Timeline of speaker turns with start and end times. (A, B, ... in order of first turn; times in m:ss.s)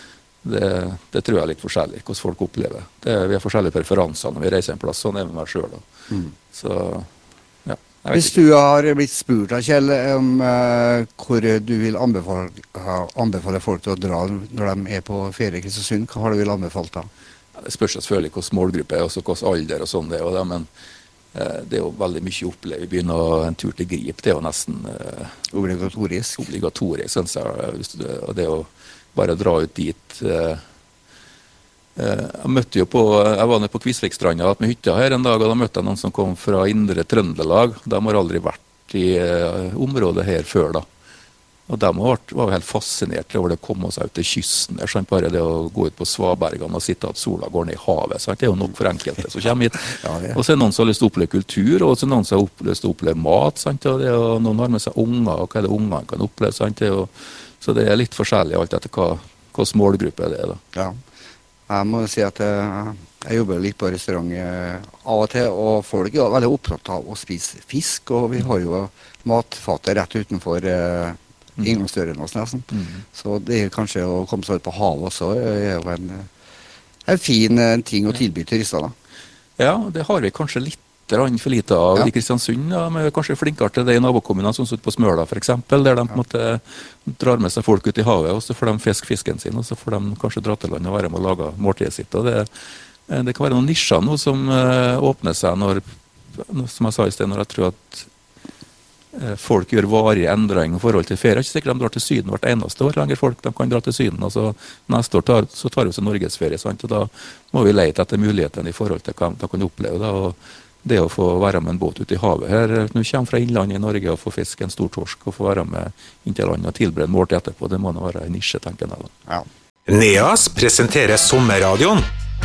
0:00.4-0:05.8 A
0:06.5-0:07.1 A
0:07.7-0:08.4 A
0:08.1-0:17.1 B
0:17.6-0:20.7 A
0:21.3-0:25.4 A
0:25.5-0:26.4 B
0:26.4-0:30.6 A
0:32.0-0:40.9 A
0:41.7-1:00.6 A
0:49.9-0:50.4 B
1:01.7-1:16.3 B
1:12.7-1:13.0 A
1:17.1-1:18.9 B
1:19.6-1:32.5 A
1:33.1-1:35.8 A
1:36.3-1:38.1 A
1:39.1-1:59.1 A
1:59.9-2:02.1 C